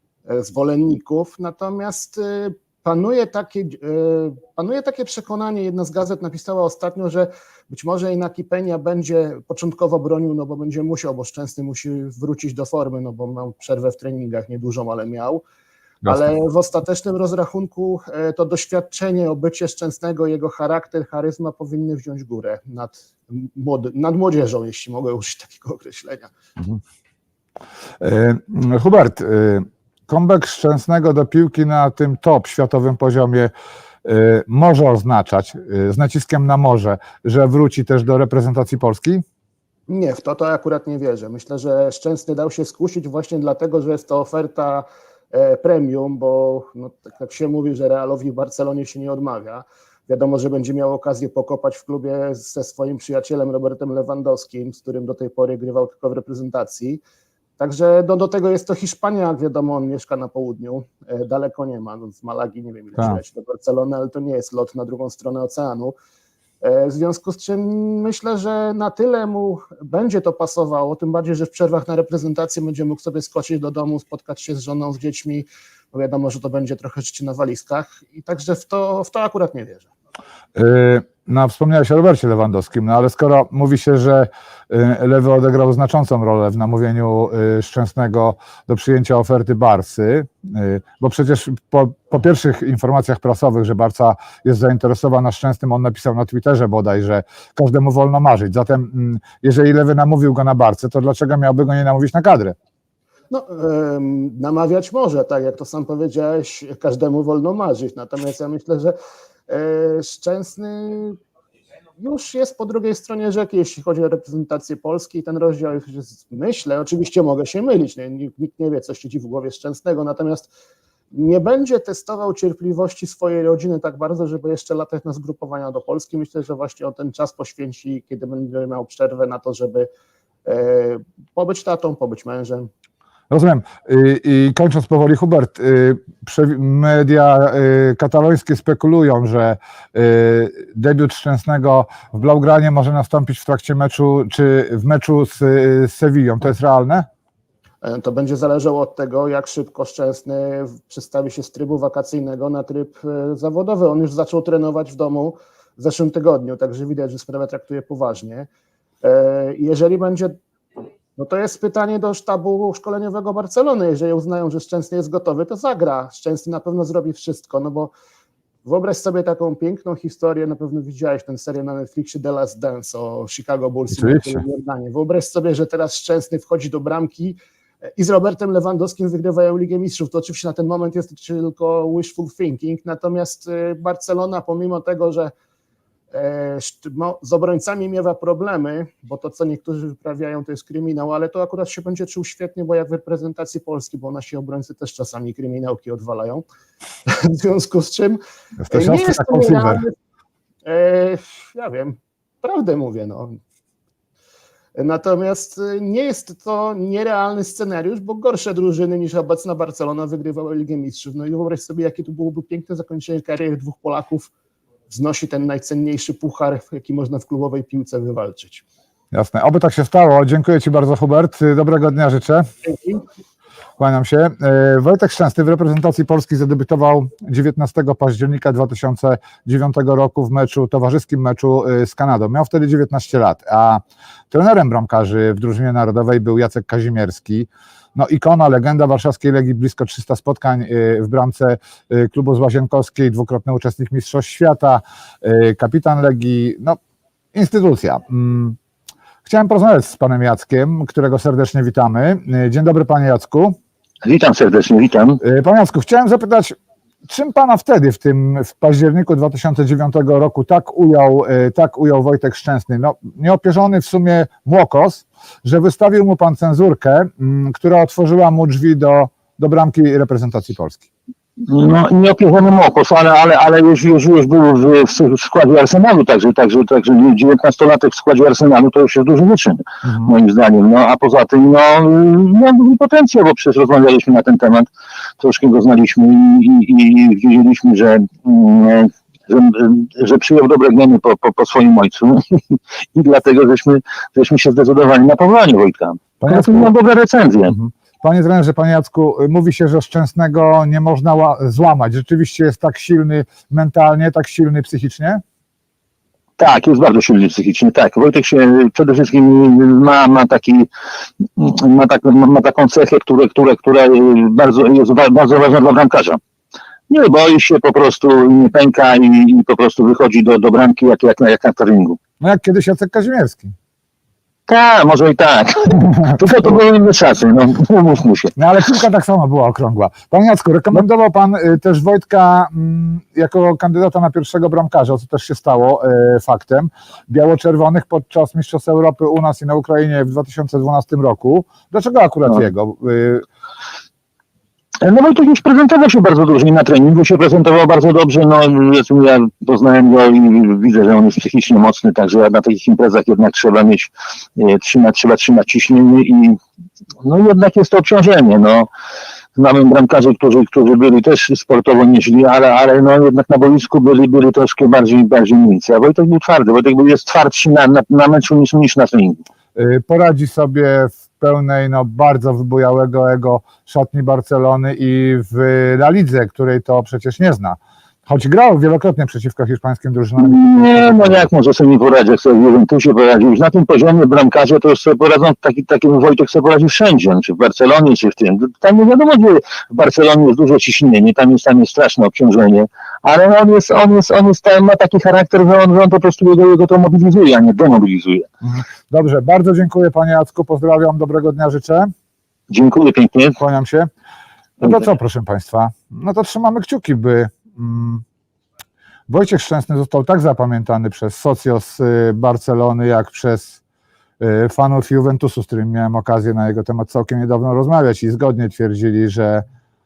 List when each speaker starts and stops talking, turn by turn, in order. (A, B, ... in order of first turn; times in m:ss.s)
0:00.2-0:15.4 A
0:16.1-0:26.3 A
0:28.0-0:33.5 B
0:34.0-0:39.2 B
0:39.9-0:57.0 A
0:57.6-1:06.0 A
1:06.6-1:19.9 A
1:20.6-1:42.5 B
1:43.3-1:49.0 A
1:49.5-1:51.2 A
1:52.0-2:00.5 A
2:01.1-2:09.9 A
2:10.4-2:12.7 A
2:13.3-2:27.1 B
2:27.8-2:38.5 A
2:39.0-2:40.4 A
2:41.2-2:47.9 A
2:48.6-3:05.3 A
2:53.9-2:54.4 B
3:06.1-3:16.4 A
3:17.1-3:18.2 A
3:18.6-3:19.8 B
3:18.7-3:19.9 A
3:20.6-3:23.4 A
3:24.7-3:34.3 A
3:34.9-3:38.6 A
3:39.1-3:42.5 B
3:42.6-3:43.0 A
3:43.8-4:06.8 B
4:07.3-4:08.6 B
4:09.2-4:13.6 B
4:14.0-4:15.2 C
4:15.2-4:16.6 B
4:17.1-4:30.9 B
4:31.5-4:44.7 C
4:39.8-4:40.1 B
4:45.2-4:57.5 C
4:56.2-4:56.7 B
4:57.5-5:05.2 B
5:06.4-5:10.7 C
5:11.4-5:16.2 C
5:16.9-5:22.0 C
5:22.2-5:23.5 B
5:24.5-5:28.3 C
5:28.4-5:43.2 B
5:44.8-5:56.4 C
5:57.0-5:58.7 C
5:59.4-6:09.2 C
6:09.5-6:21.3 B
6:20.2-6:38.2 C
6:38.4-6:41.9 B
6:42.5-6:43.4 C
6:43.4-6:43.9 B
6:44.6-6:48.0 B
6:49.1-6:53.6 B
6:54.2-6:59.4 B